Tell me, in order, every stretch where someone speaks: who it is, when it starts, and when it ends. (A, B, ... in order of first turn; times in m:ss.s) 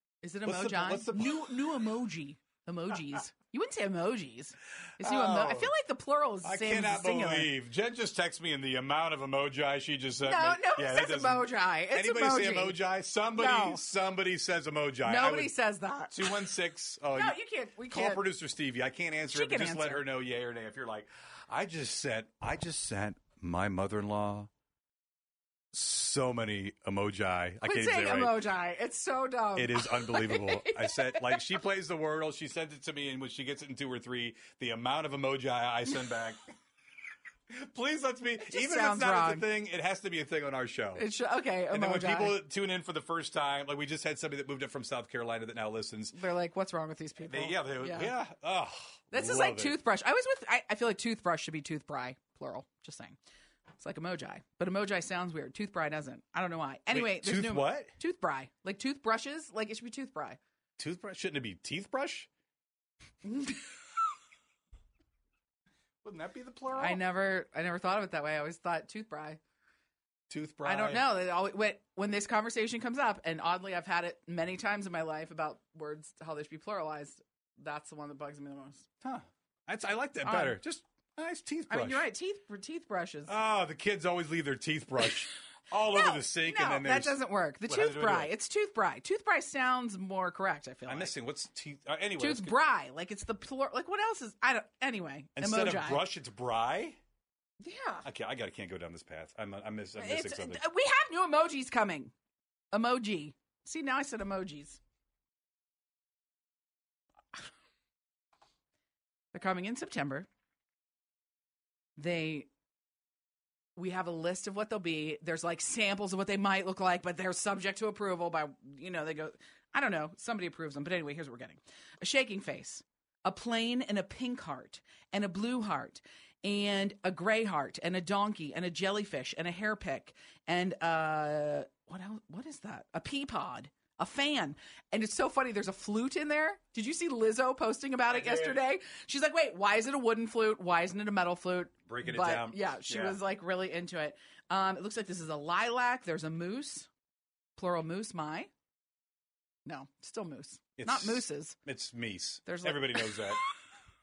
0:00.2-0:07.5 A
0:00.4-0:01.6 B
0:05.0-0:05.7 B
0:06.4-0:15.5 B
0:10.2-0:12.8 A
0:13.3-0:13.8 A
0:15.0-0:16.4 A
0:16.1-0:17.4 B
0:17.1-0:18.3 A
0:17.9-0:24.5 B
0:19.3-0:20.0 A
0:25.7-0:28.4 B
0:27.6-0:31.4 A
0:29.6-0:36.4 B
0:37.5-0:41.0 B
0:38.5-0:39.4 A
0:41.0-0:42.4 A
0:41.7-0:46.2 B
0:46.1-0:48.1 A
0:47.2-0:49.8 B
0:49.1-0:53.2 A
0:53.8-1:00.4 A
0:56.9-0:57.9 B
1:00.8-1:02.3 B
1:03.2-1:03.6 A
1:06.0-1:07.0 B
1:06.7-1:09.4 A
1:10.3-1:11.0 B
1:10.6-1:18.9 A
1:19.0-1:22.1 B
1:20.2-1:20.6 A
1:21.7-1:23.4 A
1:23.3-1:28.3 B
1:25.9-1:31.1 A
1:30.9-1:32.5 B
1:32.2-1:36.0 A
1:35.4-1:37.0 B
1:37.6-1:38.0 A
1:38.0-1:40.6 B
1:40.0-1:42.1 A
1:42.7-1:44.8 A
1:49.3-1:50.3 A
1:52.0-1:52.5 A
1:53.8-2:26.9 A
2:18.1-2:18.6 B
2:21.8-2:23.2 B
2:27.6-2:28.5 A
2:29.6-2:31.6 A
2:30.8-2:33.4 B
2:32.5-2:33.3 A